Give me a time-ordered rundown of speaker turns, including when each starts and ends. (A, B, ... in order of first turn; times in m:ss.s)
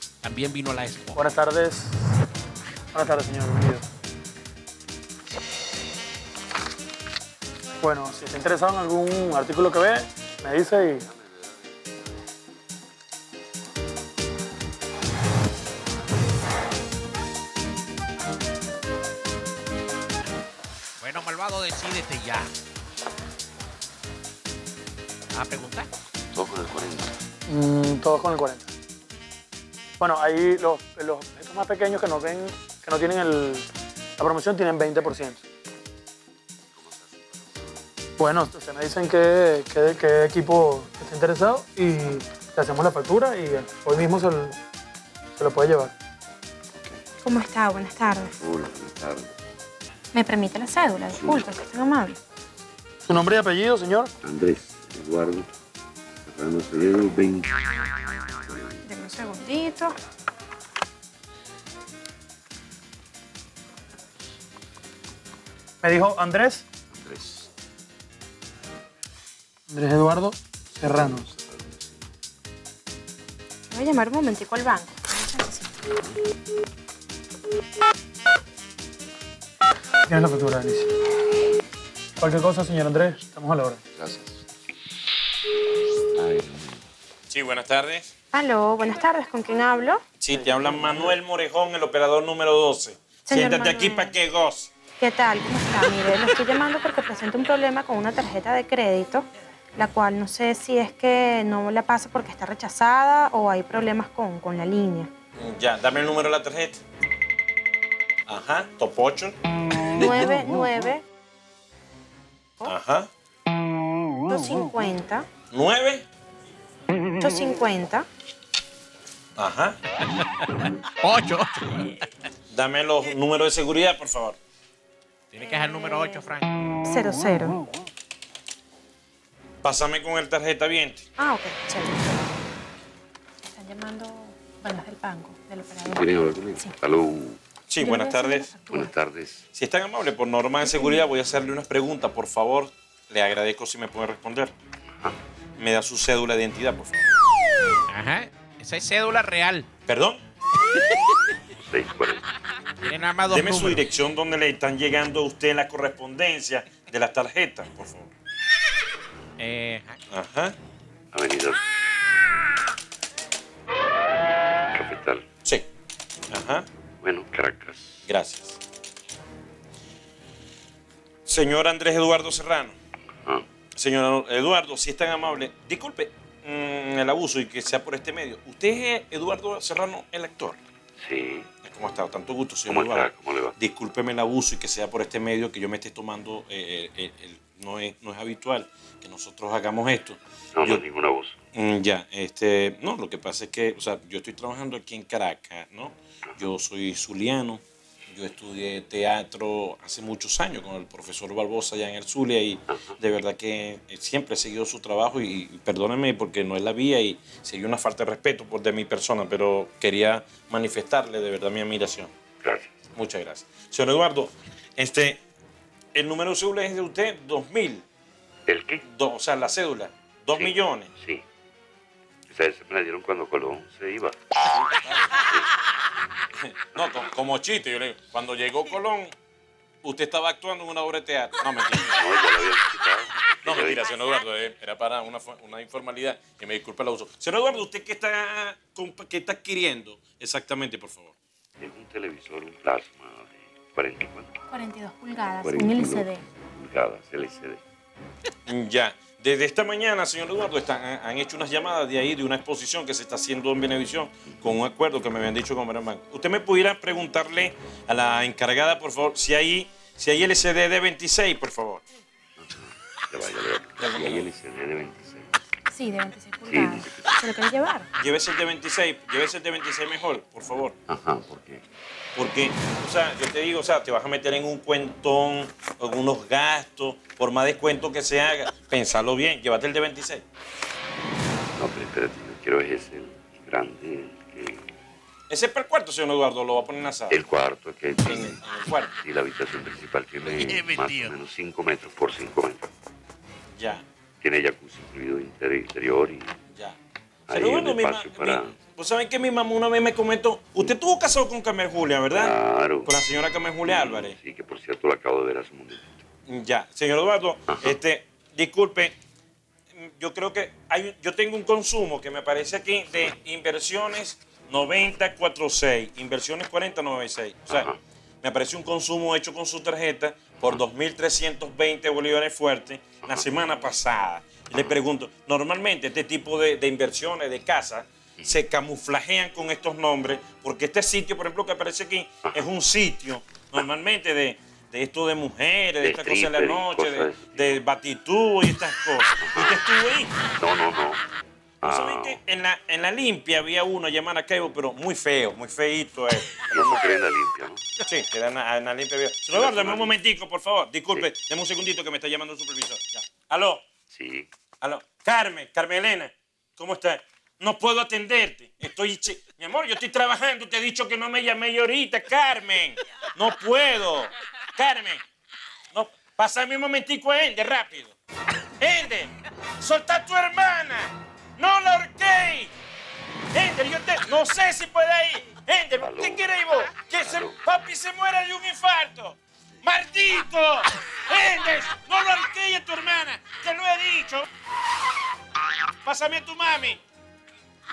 0:00.2-0:01.3 A
0:01.2-0:02.0 B
0:02.9-0:03.8 B
0:07.8-0:11.0 B
0:21.0-0:22.5 A
0:25.3-0:25.9 A
0:26.3-0:27.1 C
0:27.5-0:28.7 B
0:30.0-0:33.7 B
0:34.2-0:35.4 B
0:38.2-0:44.6 B
0:45.4-0:45.9 B
0:47.2-0:48.3 D
0:48.3-0:49.3 C
0:50.1-0:52.2 D
0:51.1-0:51.4 C
0:53.0-0:54.1 B
0:54.2-0:55.4 C
0:56.2-0:57.6 C
0:58.4-0:58.8 C
0:58.8-0:59.9 D
1:05.8-1:06.6 B
1:06.9-1:07.5 C
1:09.7-1:11.2 B
1:10.8-1:11.9 C
1:13.7-1:15.7 D
1:20.1-1:20.9 B
1:22.2-1:23.8 B
1:24.0-1:24.4 C
1:26.2-1:26.8 C
1:27.3-1:28.1 E
1:28.3-1:30.0 D
1:30.2-1:34.7 E
1:30.3-1:31.2 B
1:33.2-1:34.2 D
1:35.0-1:45.1 D
1:45.4-1:46.8 E
1:48.3-1:49.4 E
1:49.9-1:51.0 D
1:52.6-1:53.1 E
1:54.3-1:55.3 D
1:55.5-1:56.0 E
1:57.2-1:58.0 D
1:59.4-1:59.8 E
2:00.2-2:02.1 A
2:02.5-2:04.4 E
2:05.3-2:06.5 A
2:05.4-2:06.3 D
2:06.8-2:07.6 D
2:09.6-2:11.1 E
2:11.2-2:12.4 D
2:13.5-2:16.8 D
2:15.8-2:17.4 C
2:17.7-2:18.5 E
2:17.8-2:18.9 D
2:18.7-2:19.4 C
2:19.5-2:24.5 E
2:20.6-2:21.0 D
2:25.6-2:27.0 E
2:27.9-2:29.7 A
2:29.9-2:30.2 E
2:31.6-2:32.2 C
2:32.8-2:33.8 A
2:33.3-2:38.1 E
2:39.4-2:40.0 A
2:40.1-2:40.6 E
2:41.1-2:41.6 C
2:44.7-2:45.2 C
2:46.3-2:46.7 E
2:47.0-2:48.1 C
2:48.1-2:48.6 E
2:51.2-2:52.7 E
2:53.7-3:00.6 E
3:01.0-3:01.5 C
3:01.6-3:10.8 E
3:02.7-3:03.5 C
3:10.5-3:11.4 C
3:11.5-3:32.1 E
3:32.4-3:32.7 C
3:32.9-3:35.2 E
3:35.9-3:37.8 E
3:38.5-3:38.8 C
3:38.8-3:40.9 E
3:40.3-3:41.2 C
3:42.3-3:44.2 C
3:44.5-3:45.2 E
3:45.1-3:45.5 C
3:46.4-3:49.1 E
3:49.8-3:52.0 E
3:51.9-3:54.0 C
3:53.4-4:01.1 E
4:01.6-4:04.3 C
4:04.5-4:06.2 D
4:05.4-4:07.6 C
4:08.4-4:21.8 E
4:14.3-4:14.6 C
4:22.4-4:25.4 C
4:23.8-4:24.3 E
4:25.7-4:27.9 D
4:26.4-4:27.2 C
4:28.0-4:30.8 E
4:30.9-4:31.6 C
4:32.2-4:40.2 E
4:41.6-4:44.6 C
4:45.3-4:47.2 E
4:47.1-4:48.4 C
4:48.0-4:48.9 E
4:48.9-4:52.7 C
4:50.3-4:51.2 A
4:53.6-4:53.8 E
4:54.2-4:56.4 C
4:56.5-4:56.8 E
4:57.3-4:58.6 C
4:57.3-5:04.2 E
5:02.1-5:02.9 C
5:03.6-5:06.0 C
5:06.3-5:09.0 E
5:09.7-5:40.1 E
5:17.5-5:17.8 C
5:35.8-5:37.6 C
5:39.2-5:39.6 C
5:40.4-5:41.0 C
5:41.6-5:42.2 C
5:41.6-5:46.9 E
5:46.5-5:47.6 C
5:47.8-5:53.6 E
5:49.3-5:50.0 C
5:53.9-5:54.3 C
5:54.6-6:05.0 E
6:05.7-6:07.9 E
6:08.6-6:12.5 E
6:13.3-6:24.2 E
6:15.8-6:16.2 C
6:17.0-6:17.4 C
6:25.8-6:26.8 E